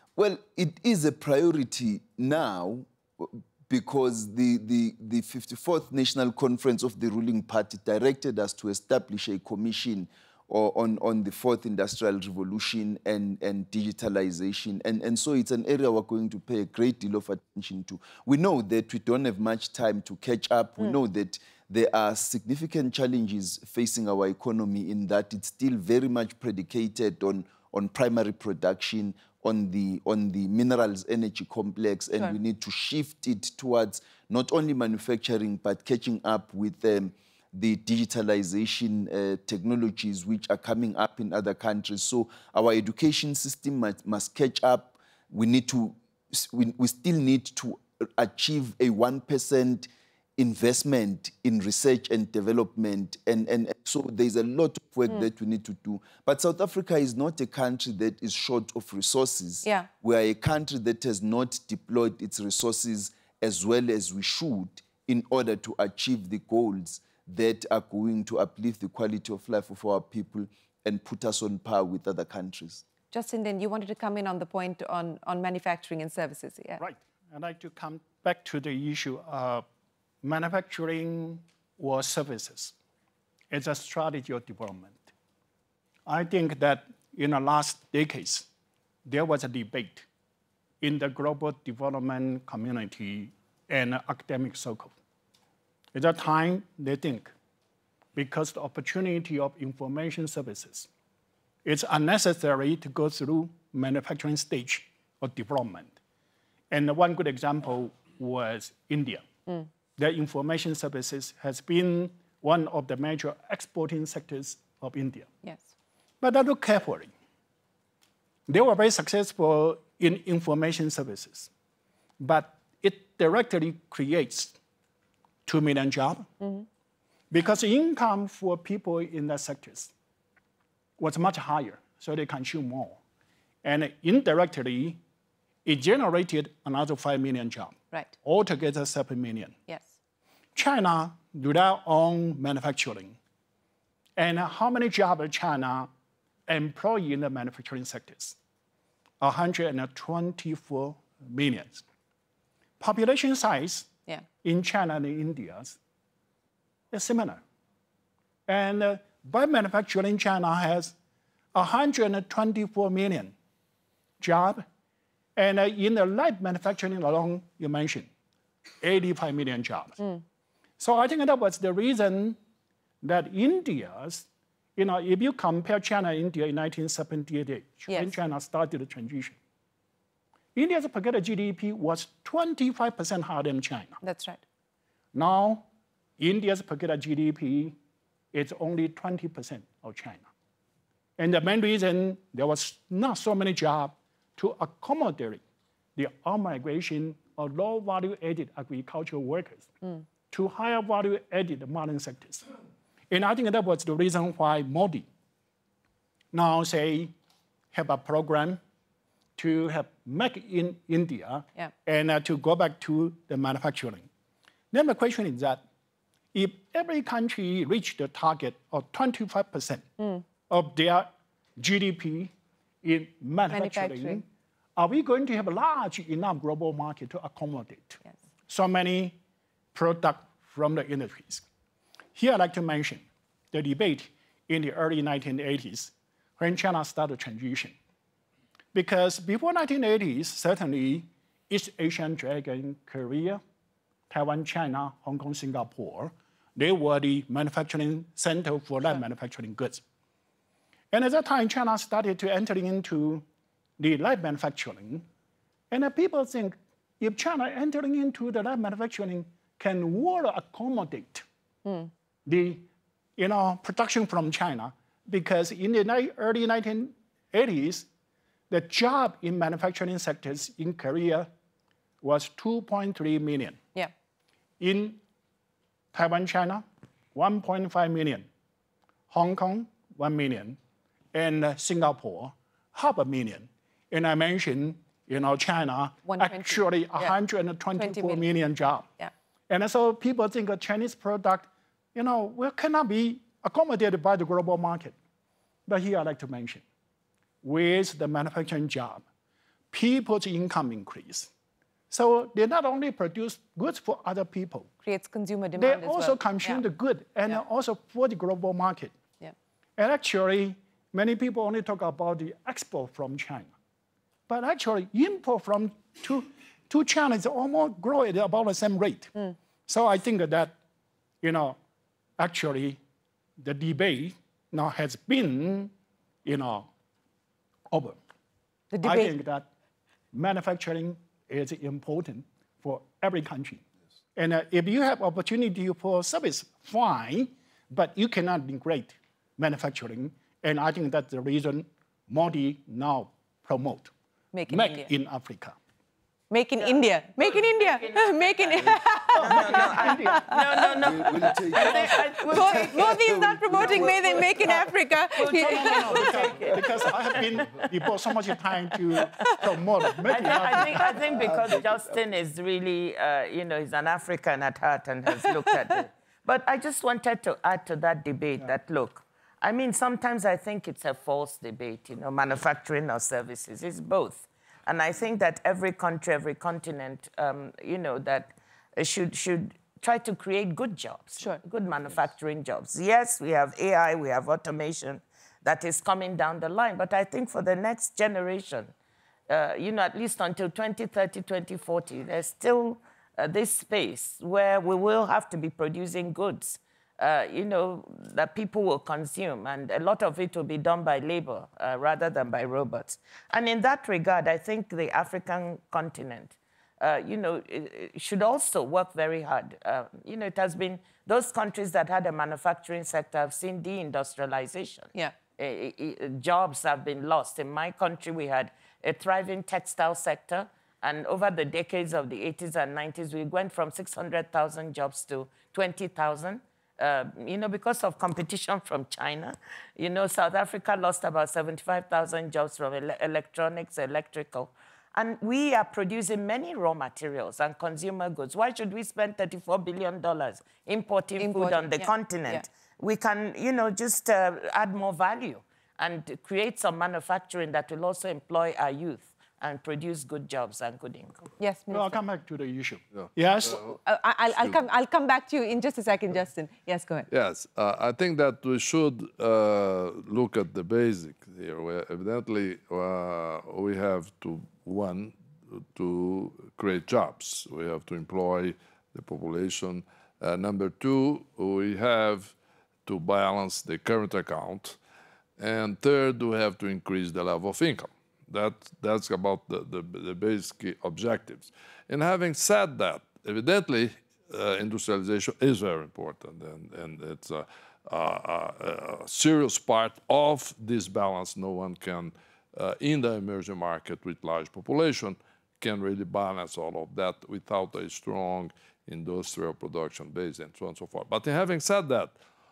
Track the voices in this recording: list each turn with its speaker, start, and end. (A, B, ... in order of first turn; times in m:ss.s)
0:00.2-1:12.8 A
1:13.1-1:16.8 B
1:16.8-1:19.6 C
1:20.2-1:22.7 C
1:23.5-1:25.1 C
1:26.0-1:28.5 C
1:29.0-1:30.0 C
1:30.8-1:34.9 C
1:35.9-1:37.3 C
1:38.1-1:40.9 C
1:41.6-1:46.0 C
1:46.7-1:49.2 C
1:50.0-1:55.3 C
1:55.4-1:55.7 B
1:56.2-1:57.1 C
1:58.5-2:01.5 C
2:02.2-2:04.6 C
2:05.4-2:06.3 C
2:07.3-2:09.9 C
2:11.0-2:13.0 C
2:13.6-2:15.0 C
2:15.6-2:19.6 C
2:19.7-2:19.9 B
2:20.6-2:23.2 C
2:24.2-2:25.9 C
2:26.5-2:28.4 C
2:29.2-2:31.8 C
2:32.8-2:33.9 C
2:34.4-2:35.8 C
2:36.9-2:37.4 C
2:38.5-2:40.9 C
2:41.5-2:43.3 C
2:44.2-2:44.6 C
2:45.4-2:48.1 C
2:48.8-2:50.0 C
2:50.8-2:52.4 C
2:53.0-2:59.4 C
2:57.9-2:58.2 B
3:00.5-3:04.0 C
3:04.0-3:04.4 B
3:05.1-3:05.7 C
3:06.2-3:07.8 C
3:08.3-3:10.3 C
3:11.2-3:15.4 C
3:16.0-3:19.7 C
3:20.3-3:22.5 C
3:23.1-3:25.1 C
3:26.3-3:27.1 C
3:27.7-3:28.6 C
3:29.4-3:34.1 C
3:34.7-3:35.6 C
3:36.3-3:39.8 C
3:40.5-3:42.3 C
3:42.8-3:49.2 C
3:43.5-3:44.2 B
3:49.7-3:51.4 C
3:52.1-3:57.7 C
3:58.7-4:03.4 C
4:04.1-4:09.8 C
4:10.9-4:13.2 C
4:13.8-4:15.0 C
4:15.7-4:21.2 C
4:21.6-4:21.9 B
4:22.2-4:27.9 C
4:28.5-4:31.3 C
4:32.0-4:33.6 C
4:34.6-4:35.0 C
4:35.9-4:38.3 C
4:39.1-4:40.6 C
4:41.1-4:48.9 C
4:46.0-4:47.2 B
4:47.8-4:48.3 B
4:49.5-4:54.9 C
4:55.7-4:56.6 C
4:57.4-4:59.0 C
4:59.7-5:01.3 C
5:01.9-5:04.7 C
5:04.8-5:06.6 B
5:05.6-5:08.9 C
5:09.8-5:13.5 C
5:14.3-5:19.1 C
5:19.7-5:20.6 C
5:21.2-5:21.6 C
5:22.2-5:22.8 C
5:23.4-5:25.7 C
5:26.2-5:26.7 C
5:27.7-5:28.0 C
5:28.7-5:29.2 B
5:28.8-5:29.5 C
5:30.1-5:33.6 C
5:34.2-5:43.9 C
5:44.3-5:44.9 B
5:44.5-5:45.6 C
5:46.3-5:50.7 B
5:46.6-5:58.0 D
5:49.2-5:50.0 C
5:50.8-5:54.5 A
5:51.6-5:51.9 C
5:52.2-5:56.3 B
5:53.6-5:54.2 C
5:55.2-6:01.6 C
5:58.9-6:00.3 B
6:00.0-6:28.7 D
6:01.0-6:01.8 A
6:05.1-6:05.5 B
6:29.3-7:31.2 D
7:21.2-7:22.4 B
7:31.4-7:32.0 B
7:31.7-7:33.8 C
7:33.0-7:33.7 E
7:33.8-7:37.1 B
7:37.1-7:52.3 E
7:52.8-7:54.8 E
7:55.4-8:22.1 E